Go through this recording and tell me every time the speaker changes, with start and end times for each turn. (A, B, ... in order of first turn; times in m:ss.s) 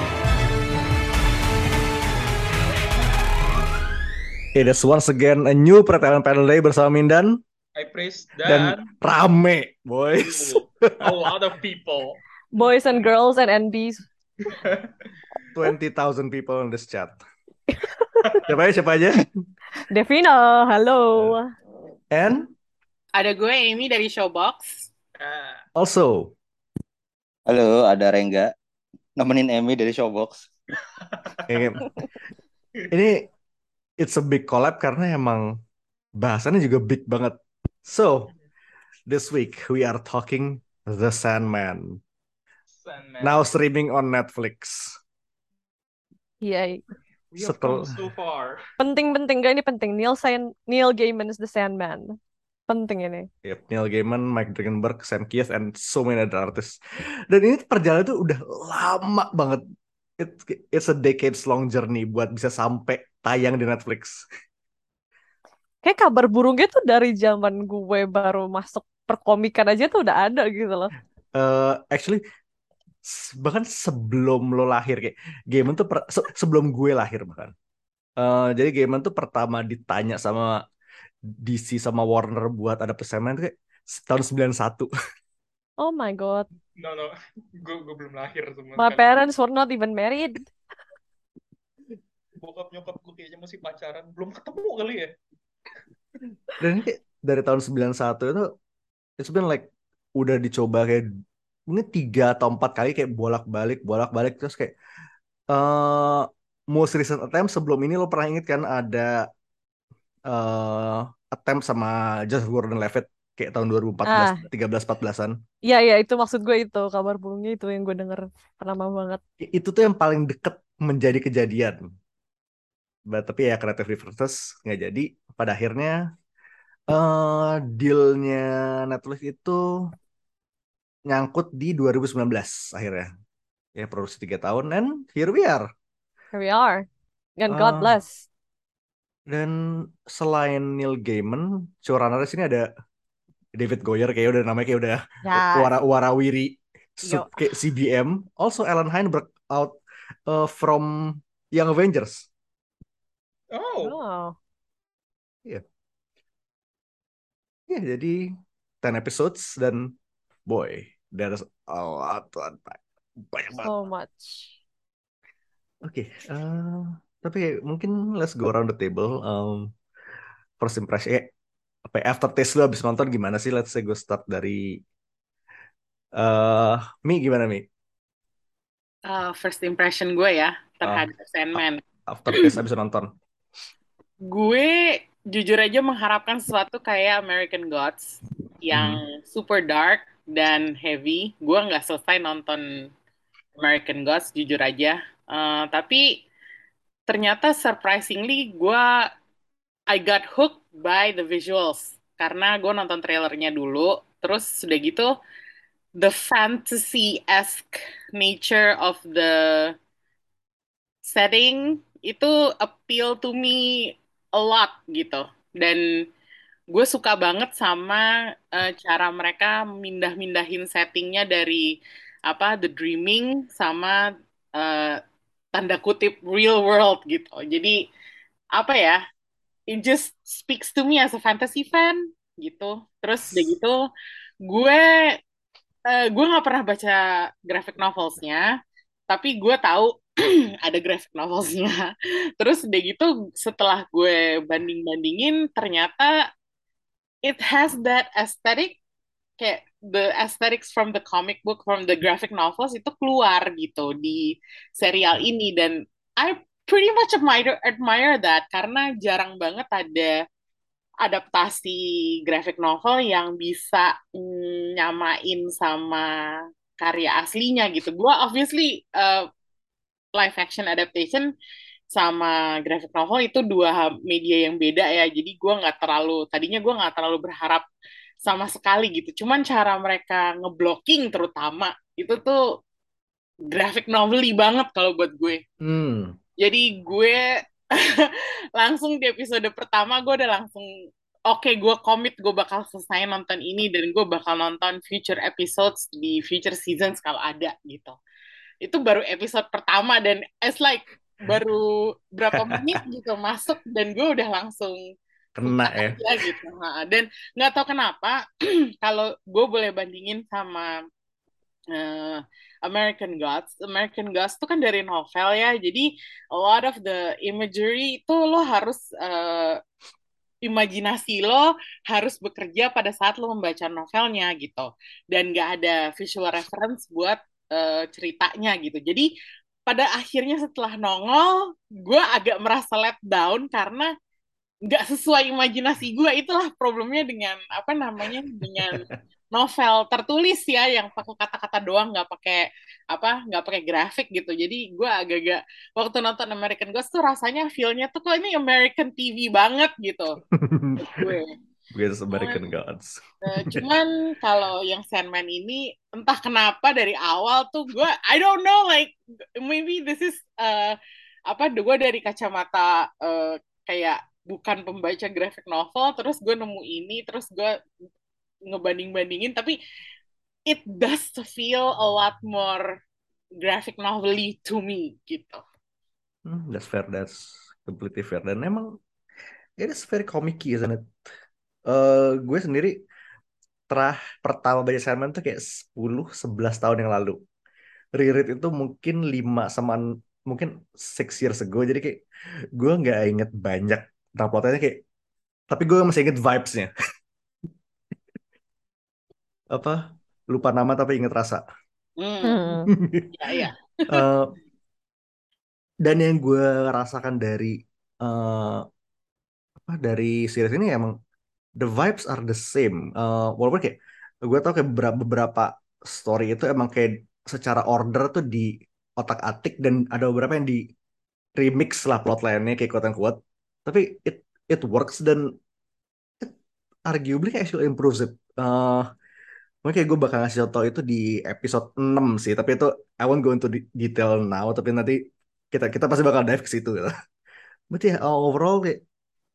0:04.5-0:07.4 A
0:07.8-0:08.9 B
0:08.4-0:11.1 A
0:10.2-0:12.2 B
0:12.5-0:14.0 C
0:15.5-0:17.2 A
0:18.4-0:19.4 A
0:19.9-0:21.5 C
0:22.1-0:22.5 A
0:23.2-0:24.9 D
0:25.2-0:25.6 B
0:25.7-0:26.3 A
0:27.5-0:28.5 E
0:29.2-0:30.5 E
0:31.5-0:31.9 A
0:32.9-0:33.2 A
0:34.0-0:35.4 A
0:36.2-0:38.3 A
0:39.1-0:42.0 A
0:42.8-0:43.4 B
0:43.2-0:45.0 A
0:46.4-0:46.8 C
0:47.3-0:48.6 B
0:47.4-0:48.0 A
0:48.8-0:52.2 C
0:52.7-0:53.3 C
0:53.4-0:56.8 A
0:57.3-0:59.6 A
1:00.2-1:04.2 A
1:05.8-1:10.9 C
1:11.4-1:12.2 A
1:13.0-1:17.5 A
1:18.2-1:20.5 A
1:21.3-1:24.9 A
1:25.8-1:26.5 C
1:26.8-1:29.1 B
1:28.8-1:30.5 C
1:32.4-1:35.1 B
1:36.6-1:38.5 A
1:39.2-1:41.0 A
1:41.7-1:44.7 A
1:45.5-1:49.1 A
1:50.3-1:55.3 A
1:54.0-1:54.4 C
1:55.6-1:59.2 C
1:59.4-2:01.8 A
2:03.1-2:05.9 A
2:06.9-2:09.9 A
2:11.1-2:13.1 A
2:13.8-2:15.6 A
2:16.3-2:16.8 C
2:17.4-2:18.3 C
2:17.5-2:18.0 A
2:19.3-2:22.6 A
2:23.6-2:29.8 A
2:25.2-2:25.7 C
2:27.0-2:27.4 C
2:30.3-2:32.3 A
2:33.5-2:34.0 B
2:33.8-2:34.4 C
2:37.7-2:38.2 A
2:38.8-2:39.9 A
2:40.5-2:43.7 A
2:43.6-2:44.6 C
2:45.8-2:49.7 A
2:50.6-2:51.3 A
2:51.8-2:54.8 A
2:56.2-2:57.6 A
2:59.0-3:01.8 D
3:00.8-3:01.1 A
3:02.1-3:03.1 A
3:04.3-3:12.6 D
3:08.7-3:09.0 A
3:13.6-3:16.2 D
3:17.1-3:18.8 D
3:19.9-3:25.1 D
3:26.0-3:29.7 D
3:31.1-3:35.8 D
3:36.7-3:41.8 D
3:42.3-3:44.0 D
3:44.6-3:45.0 D
3:45.5-3:47.8 D
3:48.5-3:49.0 D
3:49.7-3:53.8 D
3:54.4-3:55.2 D
3:55.9-3:58.5 D
3:59.1-4:06.1 D
4:07.2-4:08.8 D
4:09.4-4:20.1 D
4:21.0-4:26.0 D
4:26.8-4:29.3 D
4:30.2-4:31.2 D
4:31.9-4:37.6 D
4:38.2-4:42.4 D
4:43.5-4:45.4 D
4:45.6-4:46.1 A
4:46.4-4:47.2 D
4:47.7-4:50.7 D
4:51.3-4:58.0 D
4:58.6-5:04.8 D
5:02.3-5:02.8 A
5:05.4-5:06.3 A
5:05.5-5:10.7 D
5:11.7-5:19.6 D
5:20.4-5:29.1 D
5:29.7-5:33.9 D
5:34.7-5:50.2 D
5:50.3-5:51.2 A
5:50.9-5:51.3 D
5:51.7-5:53.6 A
5:52.1-5:52.4 D
5:53.2-6:00.8 D
6:01.3-6:07.5 D
6:08.5-6:09.6 D
6:10.5-6:12.6 D
6:13.4-6:15.4 D
6:16.2-6:18.7 A
6:19.6-6:20.9 A
6:21.7-6:22.8 A
6:23.7-6:27.2 A
6:28.0-6:32.0 A
6:32.6-6:34.8 A
6:35.5-6:36.7 A
6:39.5-6:41.4 A
6:42.0-6:42.6 D
6:42.2-6:42.7 C
6:42.7-6:43.2 A
6:43.1-6:44.0 D
6:43.9-6:44.3 A
6:45.8-6:48.6 A
6:49.6-6:50.9 A
6:51.6-7:00.6 A
7:01.4-7:05.2 A
7:06.9-7:08.8 A
7:09.6-7:15.0 A
7:15.5-7:16.9 A
7:17.7-7:18.8 A